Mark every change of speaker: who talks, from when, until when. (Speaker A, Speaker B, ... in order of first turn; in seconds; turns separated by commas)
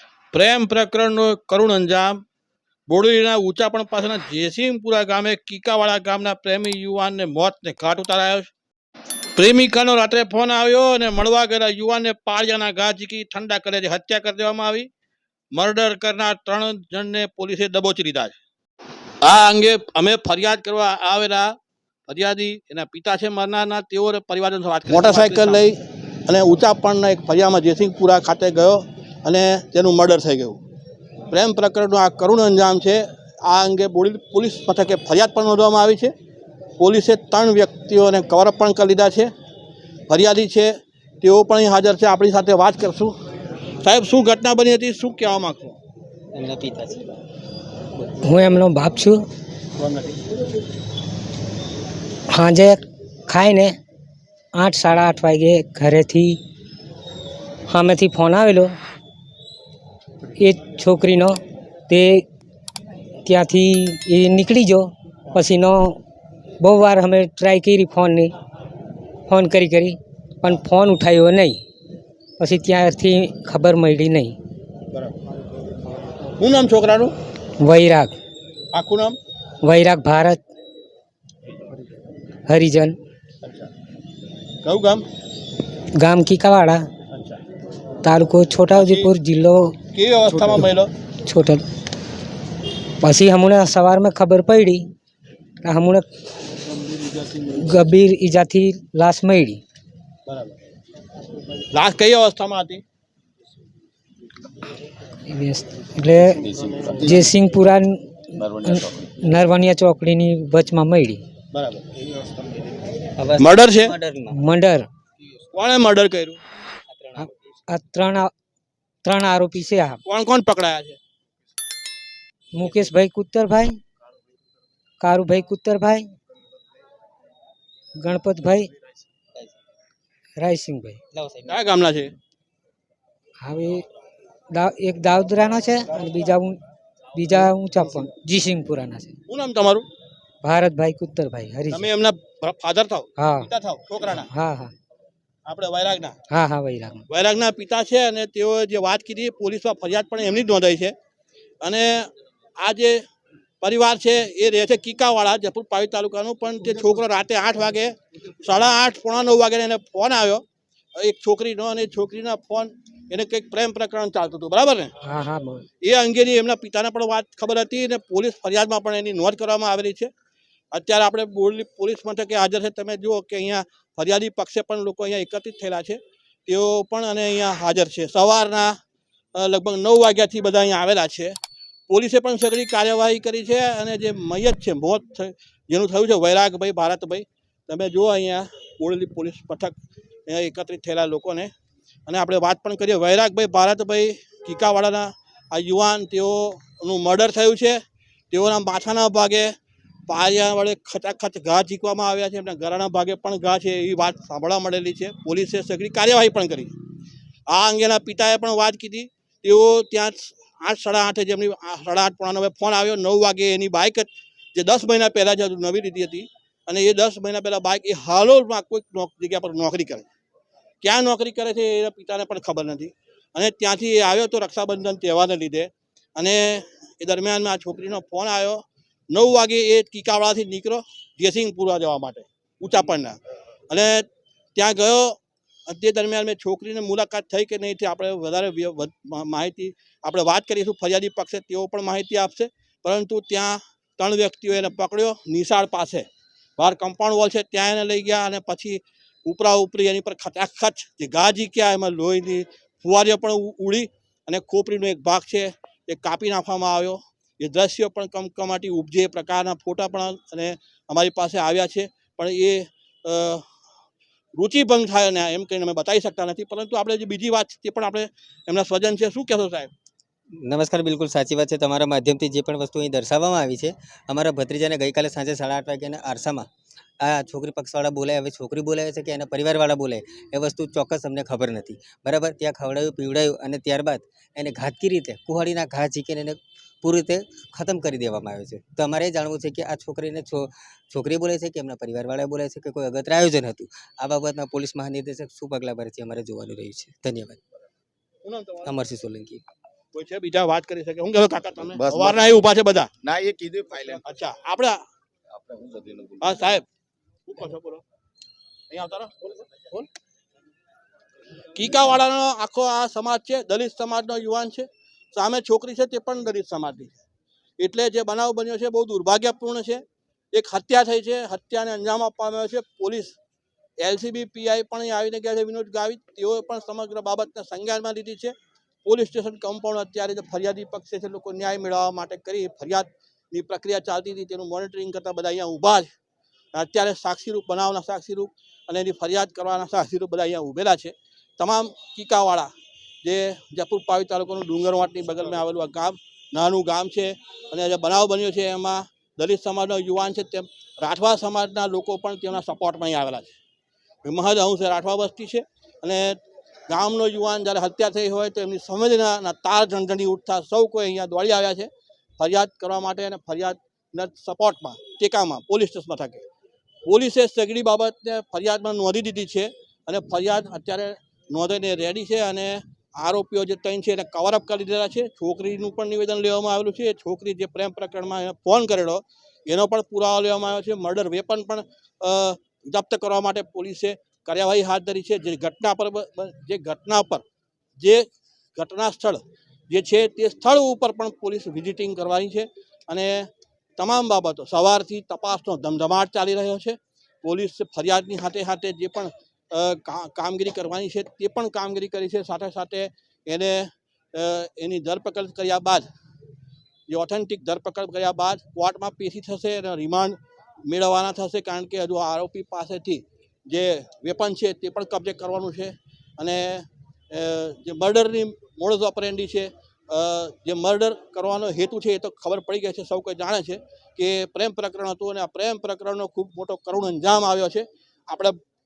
Speaker A: 0.3-2.2, Speaker A: 2.9-8.5, Speaker A: 9.4-14.9, Speaker A: 15.5-18.4, Speaker A: 19.2-21.6, Speaker A: 22.1-30.6, Speaker A: 31.3-36.1, Speaker A: 36.8-39.3, Speaker A: 40.1-43.1, Speaker A: 43.8-45.8, Speaker B: 46.3-47.2, Speaker C: 48.2-49.2, Speaker A: 49.8-50.2, Speaker C: 52.3-53.8, Speaker C: 54.5-56.4, Speaker C: 57.7-58.8, Speaker C: 60.4-62.2, Speaker C: 63.2-66.0, Speaker C: 66.6-68.3, Speaker C: 69.3-71.6, Speaker C: 72.4-74.4, Speaker A: 76.4-77.2, Speaker C: 77.6-78.1, Speaker A: 78.7-79.2, Speaker C: 79.6-80.4, Speaker C: 82.5-83.0, Speaker A: 84.6-85.0, Speaker C: 86.0-86.9, Speaker A: 87.1-87.4, Speaker C: 88.0-89.8, Speaker A: 88.7-89.1, Speaker A: 89.9-90.9, Speaker C: 90.3-90.6, Speaker C: 91.2-91.7, Speaker C: 93.0-94.9, Speaker C: 95.6-96.1, Speaker C: 97.4-99.6, Speaker A: 100.3-100.6, Speaker A: 101.7-102.8, Speaker C: 105.3-106.4, Speaker C: 107.0-111.2, Speaker A: 111.5-111.8, Speaker B: 113.2-114.4, Speaker A: 113.4-113.9, Speaker C: 114.3-114.9, Speaker A: 115.5-116.4, Speaker B: 116.9-117.3, Speaker C: 117.2-118.3, Speaker C: 119.0-120.0, Speaker A: 120.1-121.0, Speaker C: 122.5-123.8, Speaker C: 125.0-126.1, Speaker C: 128.0-128.7, Speaker C: 130.4-131.0, Speaker B: 131.1-131.5, Speaker A: 131.5-132.1, Speaker C: 133.4-133.8, Speaker C: 134.5-136.6, Speaker C: 137.2-139.2, Speaker A: 139.3-139.9, Speaker C: 140.4-141.9, Speaker A: 141.7-144.3, Speaker C: 143.2-143.5, Speaker C: 144.2-144.7, Speaker A: 145.5-146.2, Speaker C: 146.3-147.1, Speaker A: 147.1-150.9, Speaker A: 151.6-153.0, Speaker A: 153.6-160.4, Speaker A: 161.0-164.9, Speaker C: 165.0-165.7, Speaker A: 165.8-170.1, Speaker A: 170.7-178.8, Speaker A: 179.4-181.3, Speaker A: 181.9-189.8, Speaker A: 190.3-191.5, Speaker A: 192.1-197.8, Speaker A: 198.3-199.5, Speaker A: 200.1-206.8, Speaker A: 207.5-220.1, Speaker A: 220.8-233.2, Speaker A: 233.7-246.1, Speaker A: 246.6-263.5, Speaker A: 264.4-269.7, Speaker B: 270.4-276.5, Speaker B: 277.0-297.4, Speaker A: 298.2-298.7, Speaker B: 298.6-299.4, Speaker A: 299.9-302.9, Speaker D: 301.8-302.4, Speaker D: 303.0-304.0, Speaker A: 303.9-304.8, Speaker D: 305.5-306.2, Speaker A: 306.2-306.6, Speaker A: 307.3-307.8, Speaker A: 308.7-309.9, Speaker A: 311.6-317.0, Speaker A: 317.6-323.1, Speaker A: 323.8-328.3, Speaker A: 328.9-335.9, Speaker A: 336.5-342.5, Speaker A: 343.0-353.4, Speaker A: 354.1-366.2, Speaker A: 366.9-387.2, Speaker A: 387.8-388.1, Speaker A: 388.6-405.9, Speaker A: 406.9-428.4